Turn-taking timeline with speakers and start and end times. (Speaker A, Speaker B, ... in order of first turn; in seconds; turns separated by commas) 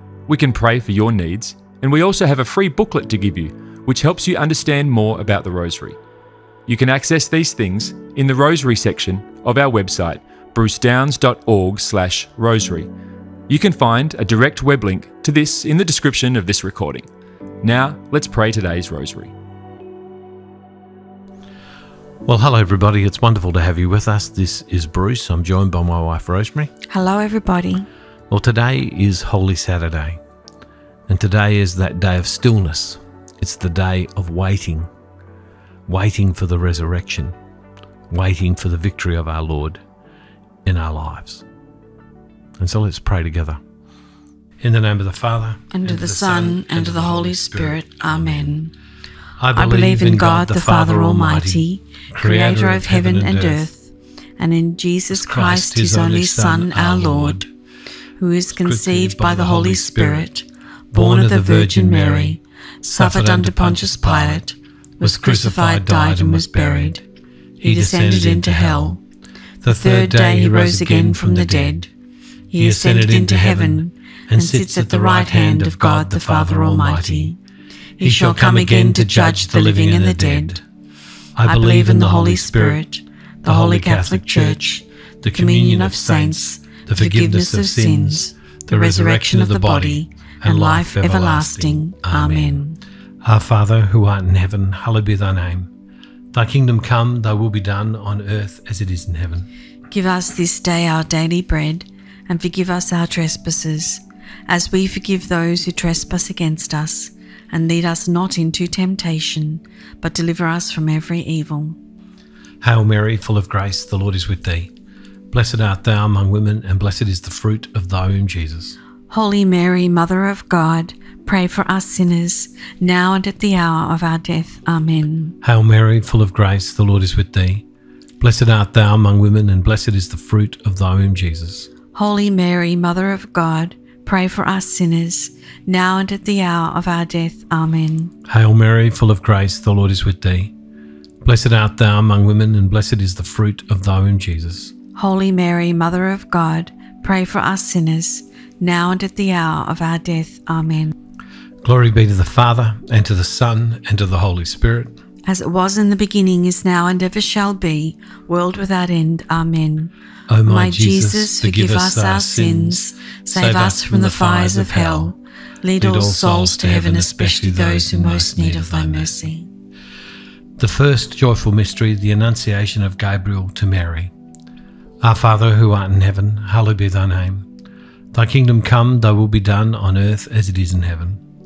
Speaker A: 0.3-6.0, Speaker A: 6.7-12.9, Speaker A: 13.5-17.1, Speaker A: 17.6-19.3, Speaker B: 22.2-26.7, Speaker C: 26.9-27.9, Speaker B: 28.3-30.2, Speaker B: 31.1-34.9, Speaker B: 35.9-37.3, Speaker B: 38.1-39.8, Speaker B: 40.6-41.4, Speaker B: 42.6-43.6, Speaker B: 44.6-48.6, Speaker C: 45.7-48.7, Speaker B: 49.4-53.7, Speaker C: 49.5-57.5, Speaker B: 55.1-57.5, Speaker C: 58.2-67.0, Speaker B: 58.6-60.3, Speaker B: 60.9-64.4, Speaker B: 65.0-67.0, Speaker B: 67.6-69.0, Speaker C: 67.6-69.0, Speaker B: 69.6-71.8, Speaker C: 69.6-71.9, Speaker C: 72.5-77.4, Speaker B: 72.5-77.3, Speaker C: 78.0-80.6, Speaker B: 78.0-80.6, Speaker B: 81.3-82.8, Speaker C: 81.4-92.8, Speaker B: 83.4-92.6, Speaker B: 93.2-95.7, Speaker B: 96.3-99.5, Speaker C: 99.9-111.8, Speaker B: 112.6-114.7, Speaker B: 115.3-118.8, Speaker C: 119.1-125.3, Speaker B: 125.4-127.6, Speaker B: 128.2-131.7, Speaker C: 131.9-138.1, Speaker B: 138.3-140.5, Speaker B: 141.2-144.7, Speaker C: 144.9-150.9, Speaker B: 151.6-154.9, Speaker C: 155.2-159.9, Speaker B: 160.3-165.1, Speaker C: 160.4-169.5, Speaker B: 165.8-169.1, Speaker B: 170.6-174.1, Speaker B: 175.0-177.4, Speaker B: 178.1-181.2